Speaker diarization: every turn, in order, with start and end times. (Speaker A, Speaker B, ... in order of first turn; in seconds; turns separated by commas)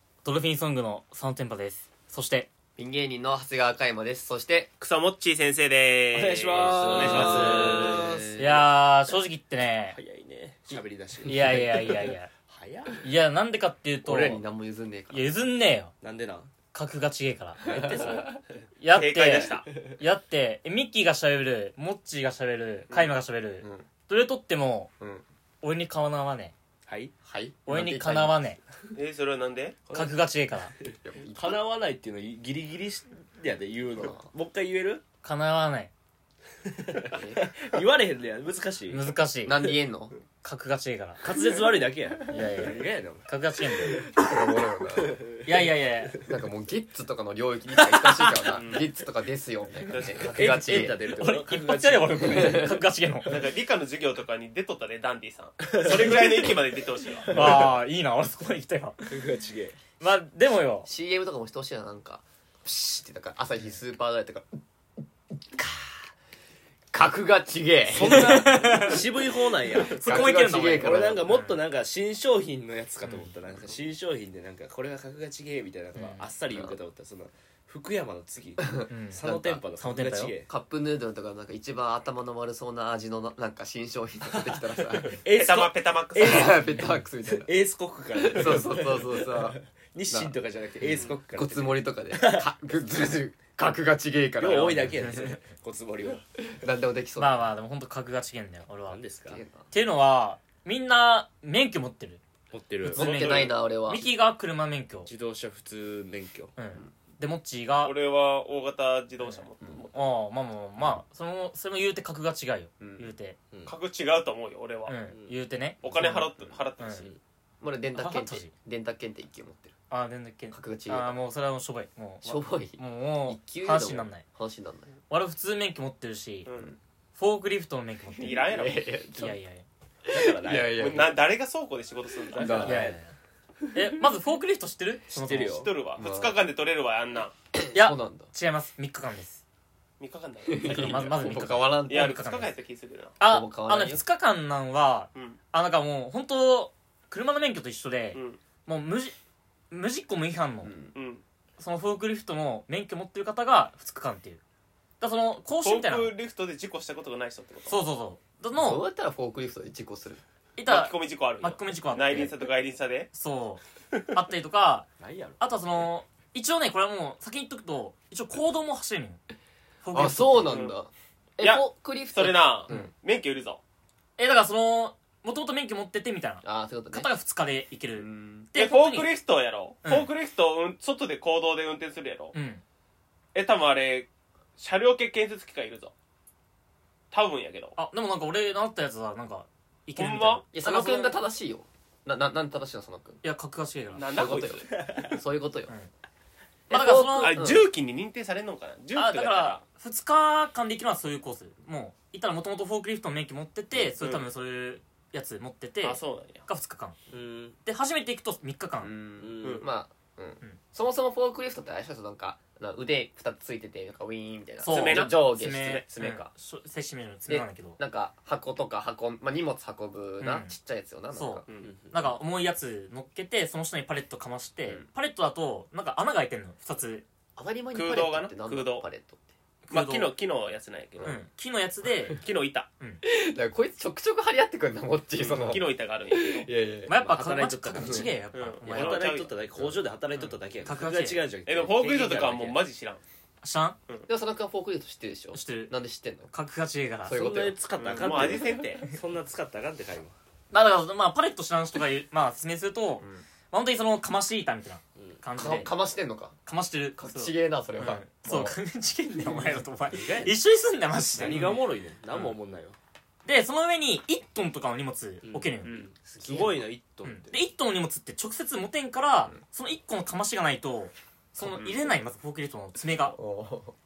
Speaker A: 0.2-2.5, Speaker B: 2.8-4.7, Speaker C: 4.8-8.0, Speaker D: 6.1-8.6, Speaker B: 6.7-8.6, Speaker A: 7.1-7.4, Speaker A: 8.4-10.0, Speaker D: 9.9-13.1, Speaker A: 10.7-12.3, Speaker B: 11.3-11.9, Speaker A: 13.0-14.4, Speaker B: 14.0-15.3, Speaker A: 15.1-15.9, Speaker D: 16.0-16.5, Speaker A: 16.7-17.6, Speaker B: 17.6-18.4, Speaker D: 17.6-18.4, Speaker A: 18.8-24.9, Speaker C: 18.9-19.7, Speaker B: 23.6-23.9, Speaker A: 25.6-26.5, Speaker D: 26.9-27.1, Speaker B: 27.2-28.4, Speaker A: 27.6-28.6, Speaker C: 28.9-29.8, Speaker A: 29.9-30.7, Speaker D: 30.9-35.0, Speaker B: 31.0-31.6, Speaker B: 33.9-34.3, Speaker A: 35.2-35.9, Speaker D: 36.7-39.1, Speaker B: 37.1-37.4, Speaker A: 38.9-39.6, Speaker B: 39.4-40.1, Speaker A: 40.4-41.2, Speaker D: 41.2-44.2, Speaker A: 42.3-44.0, Speaker B: 42.3-42.7, Speaker B: 44.1-45.2, Speaker D: 45.0-46.2, Speaker A: 45.4-46.2, Speaker B: 46.2-51.0, Speaker C: 48.5-48.9, Speaker C: 49.9-50.3, Speaker D: 50.2-53.4, Speaker A: 50.7-53.3, Speaker B: 52.1-52.8, Speaker C: 53.2-57.6, Speaker D: 55.6-56.5, Speaker D: 57.2-57.7, Speaker A: 57.3-59.1, Speaker D: 59.0-59.8, Speaker A: 60.0-60.9, Speaker B: 60.8-64.5, Speaker B: 65.5-66.1, Speaker B: 66.9-68.8, Speaker D: 67.9-80.5, Speaker A: 68.0-69.0, Speaker B: 69.7-71.3, Speaker A: 69.8-71.6, Speaker A: 76.0-76.3, Speaker B: 76.5-76.8, Speaker B: 78.6-79.6, Speaker A: 78.9-79.2, Speaker A: 79.8-80.3, Speaker B: 80.5-85.2, Speaker D: 84.3-92.5, Speaker C: 85.3-86.6, Speaker B: 86.2-87.5, Speaker B: 88.2-89.6, Speaker B: 90.1-95.3, Speaker D: 94.4-96.2, Speaker B: 96.5-97.5, Speaker A: 97.2-99.0, Speaker D: 98.9-99.4, Speaker B: 99.3-99.7, Speaker A: 99.7-102.2, Speaker D: 102.5-103.2, Speaker A: 102.8-105.1, Speaker B: 102.9-104.1, Speaker C: 103.0-103.5, Speaker D: 105.0-106.5, Speaker A: 106.5-107.9, Speaker C: 107.8-110.0, Speaker A: 109.2-113.4, Speaker B: 112.8-113.1, Speaker C: 113.7-115.0, Speaker A: 114.9-117.1, Speaker D: 115.1-115.3, Speaker C: 115.8-117.1, Speaker B: 117.6-119.8, Speaker A: 118.0-118.5, Speaker A: 119.9-124.2, Speaker B: 120.5-121.2, Speaker B: 122.2-124.9, Speaker A: 125.1-126.5, Speaker C: 126.5-126.7, Speaker A: 127.2-128.5, Speaker C: 128.2-128.9, Speaker B: 128.2-129.4, Speaker A: 129.1-129.6, Speaker B: 130.0-131.2, Speaker D: 130.1-131.2, Speaker C: 130.6-132.7, Speaker D: 132.3-133.0, Speaker B: 132.3-132.9, Speaker A: 132.6-133.0, Speaker A: 133.7-135.7, Speaker D: 135.1-135.7, Speaker C: 135.5-137.3, Speaker B: 135.9-136.4, Speaker B: 137.5-138.3, Speaker A: 137.7-139.4, Speaker C: 140.0-141.1, Speaker B: 140.5-142.2, Speaker A: 140.6-142.5, Speaker C: 141.9-143.2, Speaker A: 143.2-149.1, Speaker B: 143.2-144.0, Speaker C: 148.1-148.4, Speaker A: 149.7-150.7, Speaker B: 150.6-150.9, Speaker C: 150.9-151.2, Speaker A: 151.6-154.4, Speaker A: 155.0-156.1, Speaker C: 155.6-157.8, Speaker A: 157.7-158.8, Speaker B: 158.6-160.2, Speaker A: 160.6-162.3, Speaker C: 160.7-163.1, Speaker A: 163.1-164.9, Speaker D: 165.0-165.4, Speaker A: 165.4-169.2, Speaker A: 169.8-170.6, Speaker B: 169.9-172.9, Speaker C: 170.5-170.7, Speaker C: 171.4-173.6, Speaker A: 174.2-179.1, Speaker B: 176.4-177.1, Speaker B: 177.9-178.5, Speaker C: 178.5-182.3, Speaker A: 179.8-180.1, Speaker A: 182.3-182.6, Speaker C: 183.3-185.9, Speaker C: 187.1-187.8, Speaker A: 187.8-191.1, Speaker C: 190.0-190.4, Speaker B: 190.5-193.2, Speaker A: 193.2-194.4, Speaker C: 193.9-194.8, Speaker B: 194.1-195.7, Speaker D: 194.7-195.2, Speaker A: 196.7-197.4, Speaker B: 196.7-197.7, Speaker C: 197.2-199.6, Speaker A: 198.9-207.0, Speaker C: 204.0-204.3, Speaker C: 205.8-206.4, Speaker D: 207.1-207.6, Speaker A: 207.6-208.9, Speaker B: 208.8-216.3, Speaker D: 209.2-209.6, Speaker A: 214.6-217.8, Speaker C: 214.7-215.8, Speaker B: 217.3-221.4, Speaker A: 220.2-220.5, Speaker A: 221.1-227.0, Speaker C: 221.5-221.7, Speaker D: 221.6-222.0, Speaker B: 227.3-229.3, Speaker C: 227.7-228.8, Speaker C: 229.7-231.2, Speaker A: 229.7-230.1, Speaker A: 231.0-232.2, Speaker C: 232.1-232.7, Speaker B: 233.0-237.2, Speaker C: 235.2-236.5, Speaker A: 236.9-239.1, Speaker D: 237.0-238.1, Speaker B: 237.7-238.1, Speaker C: 238.3-239.3, Speaker D: 238.7-242.6, Speaker A: 240.6-241.2, Speaker C: 241.4-243.0, Speaker A: 243.4-243.8, Speaker B: 244.1-246.3, Speaker A: 245.3-245.7, Speaker A: 246.3-247.2, Speaker B: 247.1-248.6, Speaker D: 247.1-250.1, Speaker C: 247.8-248.8, Speaker A: 250.5-255.7, Speaker B: 253.0-253.3, Speaker D: 254.9-255.2, Speaker B: 255.3-256.4, Speaker A: 256.4-261.6, Speaker B: 256.9-258.6, Speaker D: 259.9-260.4, Speaker D: 261.1-262.8, Speaker A: 263.2-265.9, Speaker D: 265.2-267.4, Speaker C: 265.6-265.9, Speaker B: 266.0-266.7, Speaker A: 267.0-273.1, Speaker B: 271.4-271.9, Speaker B: 273.1-273.7